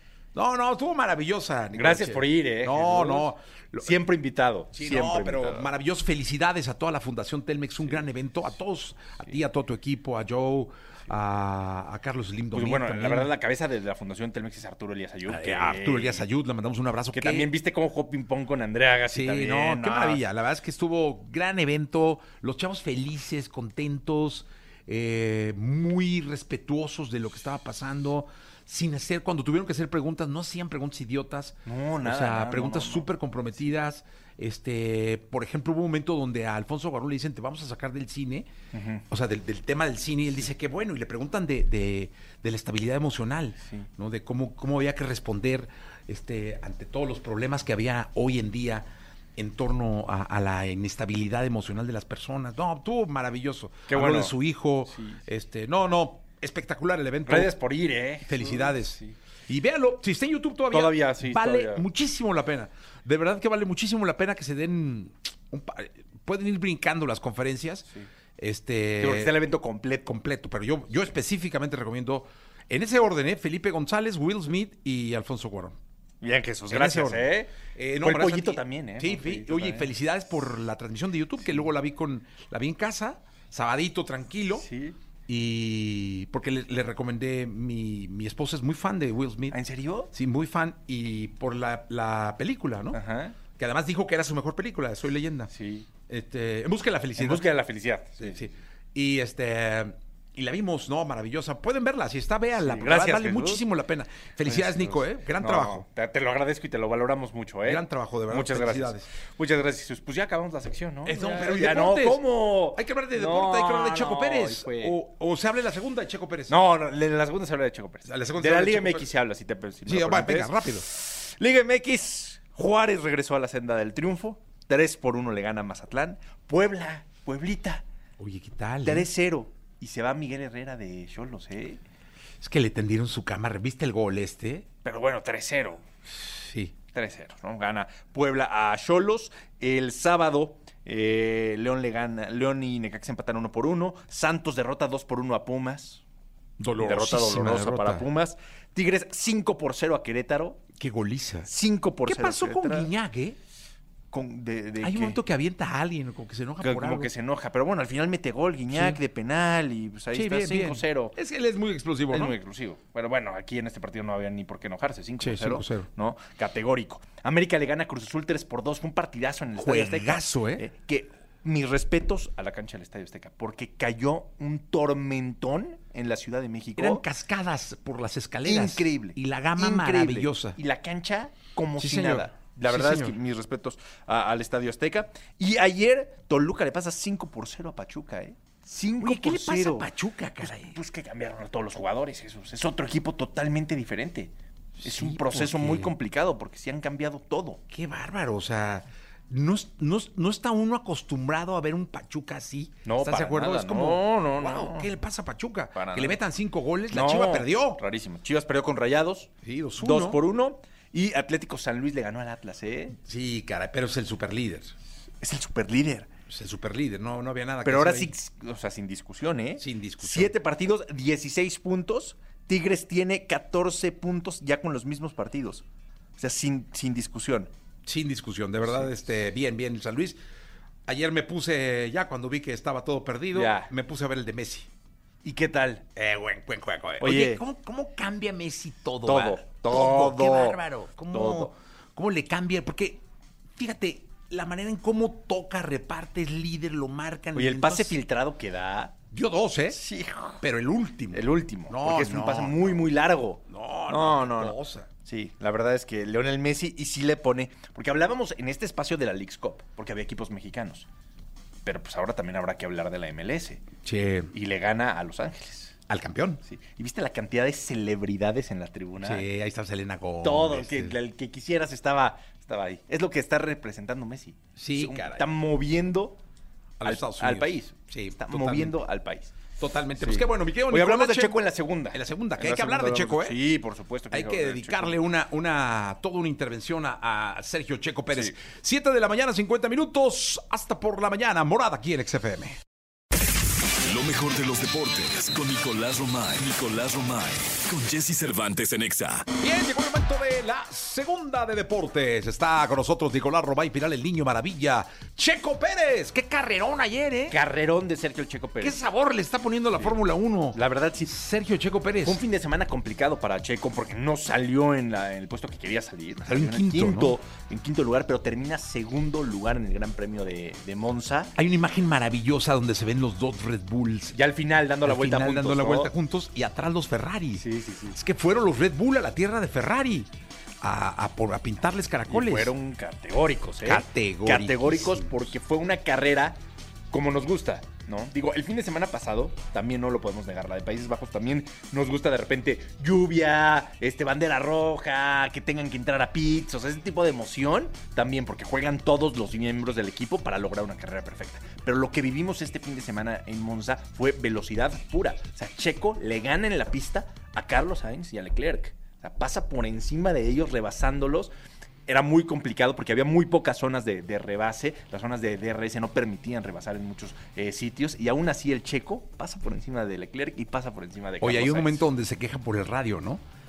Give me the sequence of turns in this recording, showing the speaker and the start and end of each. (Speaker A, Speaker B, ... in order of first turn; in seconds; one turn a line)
Speaker A: 0.3-4.0
Speaker B: 1.7-5.7
Speaker A: 4.7-13.3
Speaker B: 12.5-16.3
Speaker A: 15.2-17.5
Speaker B: 17.1-20.2
Speaker A: 19.1-38.5
Speaker B: 31.6-33.1
Speaker B: 38.7-39.0
Speaker A: 39.1-57.5
Speaker B: 53.9-54.4
Speaker B: 54.9-55.2
Speaker B: 57.2-59.2
Speaker A: 58.2-67.9
Speaker B: 60.7-61.9
Speaker A: 68.4-69.3
Speaker B: 69.0-70.1
Speaker A: 70.1-75.8
Speaker B: 76.2-79.9
Speaker A: 76.7-84.7
Speaker B: 84.6-85.0
Speaker A: 85.3-89.6
Speaker B: 89.5-90.1
Speaker A: 90.1-93.0
Speaker B: 92.9-93.4
Speaker A: 93.5-95.5
Speaker B: 95.5-95.9
Speaker A: 96.1-97.5
Speaker B: 97.2-98.5
Speaker A: 98.2-105.9
Speaker B: 102.6-103.7
Speaker B: 104.4-115.0
Speaker A: 107.7-109.1
Speaker A: 111.0-116.5
Speaker B: 116.5-127.8
Speaker A: 118.0-119.1
Speaker A: 119.9-120.8
Speaker A: 128.2-129.1
Speaker B: 128.8-131.8
Speaker A: 132.4-134.7
Speaker B: 134.8-135.8
Speaker A: 136.1-136.7
Speaker B: 136.9-146.0
Speaker A: 146.6-148.1
Speaker B: 146.8-150.6
Speaker A: 150.8-151.5
Speaker B: 151.4-152.9
Speaker A: 152.1-153.4
Speaker B: 154.1-155.2
Speaker A: 154.8-157.1
Speaker B: 156.6-161.2
Speaker A: 158.7-159.0
Speaker A: 160.1-162.4
Speaker B: 162.1-177.0
Speaker A: 165.2-165.9
Speaker A: 169.6-170.7
Speaker A: 176.8-180.6
Speaker B: 178.4-197.6
Speaker A: 181.8-183.2
Speaker A: 189.0-190.8
Speaker A: 194.8-195.9
Speaker A: 197.7-207.8
Speaker B: 202.8-204.9
Speaker B: 205.7-206.2
Speaker B: 206.9-213.0
Speaker A: 209.4-210.2
Speaker A: 213.0-214.7
Speaker B: 215.2-216.1
Speaker A: 216.3-218.1
Speaker B: 217.6-225.7
Speaker A: 219.6-220.3
Speaker B: 226.2-227.5
Speaker A: 227.9-230.2
Speaker B: 228.6-228.9
Speaker A: 230.9-234.7
Speaker B: 233.3-233.7
Speaker B: 235.2-235.8
Speaker A: 236.0-243.0
Speaker B: 237.0-237.4
Speaker B: 239.1-241.5
Speaker A: 243.6-248.0
Speaker B: 247.3-249.0
Speaker A: 249.1-249.8
Speaker B: 249.7-250.4
Speaker A: 250.4-252.9
Speaker B: 251.1-260.9
Speaker A: 253.5-254.9
Speaker B: 261.6-263.7
Speaker A: 263.8-264.3
Speaker B: 264.3-265.8
Speaker A: 265.9-266.4
Speaker B: 266.4-269.2
Speaker A: 269.0-271.0
Speaker B: 270.2-276.2
Speaker A: 274.6-275.3
Speaker A: 276.8-278.8
Speaker B: 276.8-279.4
Speaker A: 279.6-283.4
Speaker B: 279.9-285.0
Speaker A: 284.1-292.6
Speaker B: 288.1-288.4
Speaker C: 293.8-299.3
Speaker A: 299.4-307.4
Speaker B: 307.3-308.8
Speaker A: 308.6-312.2
Speaker B: 310.5-311.1
Speaker B: 312.0-321.3
Speaker A: 316.2-317.2
Speaker A: 321.4-324.2
Speaker B: 324.1-325.9
Speaker A: 324.8-330.1
Speaker B: 327.4-328.0
Speaker A: 330.6-332.5
Speaker B: 332.1-336.4
Speaker A: 333.6-335.1
Speaker B: 336.9-361.3
Speaker B: 361.9-371.9
Speaker A: 371.2-373.2